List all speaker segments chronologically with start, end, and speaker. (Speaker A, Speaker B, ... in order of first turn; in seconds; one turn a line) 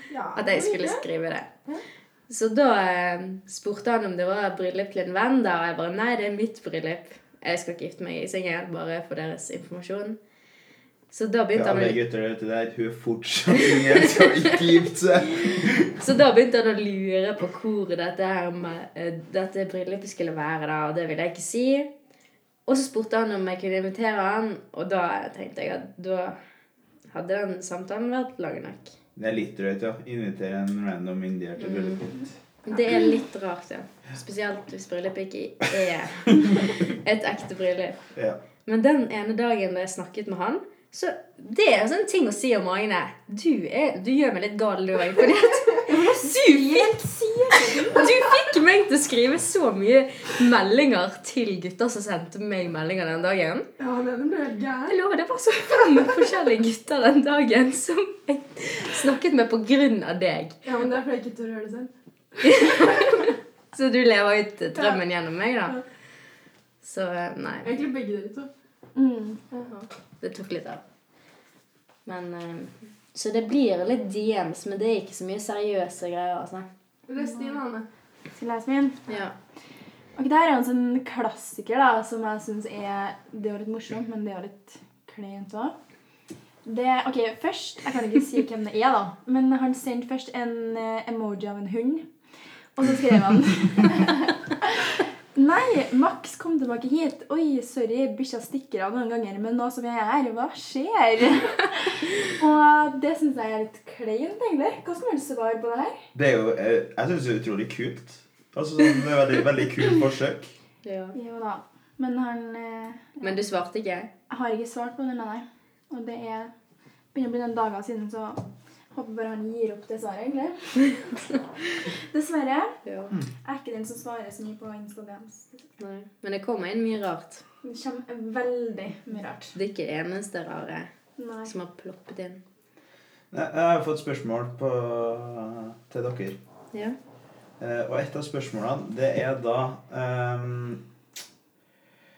Speaker A: 0.1-1.0
Speaker B: 0.3-1.5
Speaker B: 2.3-10.2
Speaker B: 11.1-12.0
Speaker C: 11.5-16.0
Speaker B: 13.9-14.3
Speaker B: 15.9-21.9
Speaker B: 22.7-26.4
Speaker B: 27.1-28.9
Speaker C: 29.1-32.3
Speaker B: 31.6-32.0
Speaker B: 32.6-38.0
Speaker B: 38.6-46.9
Speaker D: 45.9-48.1
Speaker B: 47.7-53.7
Speaker A: 53.8-55.0
Speaker B: 54.9-60.6
Speaker A: 60.6-61.9
Speaker B: 62.4-65.8
Speaker A: 62.5-63.1
Speaker B: 66.8-67.7
Speaker A: 67.6-68.5
Speaker D: 68.9-69.4
Speaker A: 69.5-69.9
Speaker B: 70.2-70.8
Speaker B: 72.0-76.7
Speaker A: 77.1-77.8
Speaker D: 78.3-79.2
Speaker B: 79.1-79.3
Speaker D: 80.2-85.7
Speaker D: 86.6-92.1
Speaker D: 92.8-106.0
Speaker C: 106.1-110.5
Speaker B: 110.8-111.2
Speaker D: 111.1-113.3
Speaker B: 113.2-114.1
Speaker D: 114.3-116.5
Speaker D: 117.1-121.0
Speaker D: 122.1-122.8
Speaker B: 122.8-123.1
Speaker D: 123.4-125.7
Speaker B: 125.8-127.4
Speaker D: 127.6-129.5
Speaker B: 129.5-130.9
Speaker D: 131.2-131.5
Speaker B: 131.4-132.4
Speaker C: 133.3-136.4
Speaker C: 137.6-140.8